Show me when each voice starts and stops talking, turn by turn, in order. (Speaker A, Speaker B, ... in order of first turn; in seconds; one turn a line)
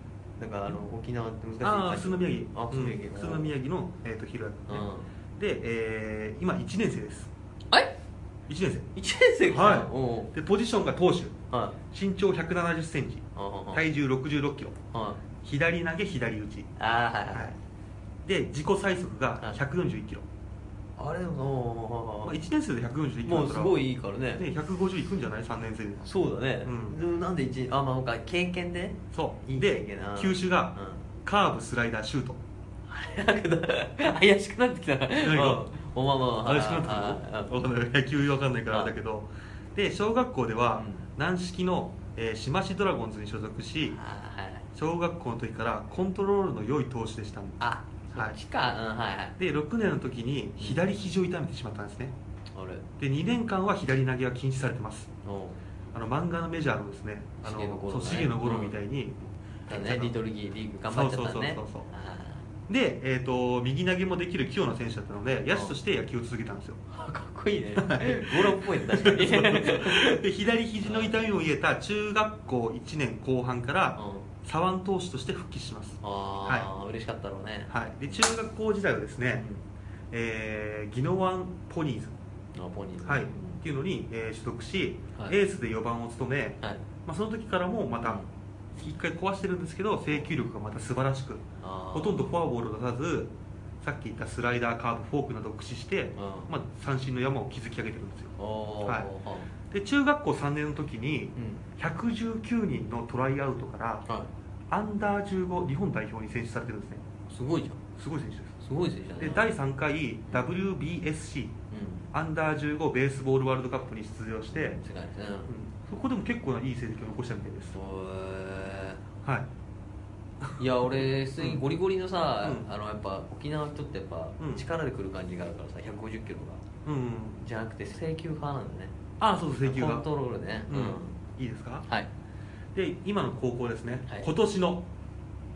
Speaker A: 0.4-3.5
Speaker B: 1.6-4.9
Speaker A: 4.7-5.1
Speaker B: 5.4-7.3
Speaker B: 8.5-8.9
Speaker A: 8.9-10.3
Speaker B: 9.5-11.4
Speaker A: 11.5-11.8
Speaker B: 11.9-14.8
Speaker A: 13.4-13.8
Speaker A: 14.9-15.2
Speaker B: 15.4-16.7
Speaker A: 16.8-17.6
Speaker B: 18.2-20.3
Speaker A: 21.0-22.4
Speaker B: 22.2-23.8
Speaker A: 23.2-24.4
Speaker B: 24.4-26.1
Speaker A: 26.0-31.0
Speaker B: 26.6-27.0
Speaker B: 29.1-32.4
Speaker A: 32.9-37.5
Speaker B: 35.2-35.6
Speaker B: 36.4-44.0
Speaker A: 40.8-41.1
Speaker A: 43.9-44.6
Speaker B: 44.7-48.4
Speaker A: 47.6-49.4
Speaker B: 49.4-52.1
Speaker A: 52.5-52.9
Speaker B: 53.0-55.1
Speaker A: 55.2-55.6
Speaker B: 55.9-60.1
Speaker A: 57.4-58.8
Speaker A: 59.7-62.4
Speaker B: 60.9-61.9
Speaker B: 62.7-66.8
Speaker A: 66.9-70.2
Speaker B: 67.8-76.7
Speaker A: 70.8-71.1
Speaker A: 74.0-74.3
Speaker A: 76.0-77.7
Speaker B: 77.7-79.5
Speaker A: 79.4-79.6
Speaker B: 80.1-82.2
Speaker A: 82.5-83.6
Speaker B: 83.0-88.2
Speaker A: 88.0-88.3
Speaker B: 88.7-99.1
Speaker A: 91.6-92.3
Speaker A: 96.2-96.5
Speaker A: 98.4-99.5
Speaker B: 99.7-104.1
Speaker A: 101.4-101.6
Speaker B: 104.7-107.0
Speaker A: 107.3-107.8
Speaker B: 108.0-108.6
Speaker A: 108.6-109.5
Speaker B: 109.2-111.6
Speaker A: 111.7-112.1
Speaker B: 112.1-114.8
Speaker A: 114.6-115.5
Speaker B: 115.5-117.7
Speaker A: 117.7-119.0
Speaker B: 119.2-119.5
Speaker B: 120.4-121.6
Speaker A: 120.6-126.6
Speaker B: 124.4-124.6
Speaker B: 126.8-127.4
Speaker A: 127.4-128.9
Speaker B: 129.2-130.1
Speaker A: 129.6-131.2
Speaker B: 130.7-131.9
Speaker B: 132.7-134.9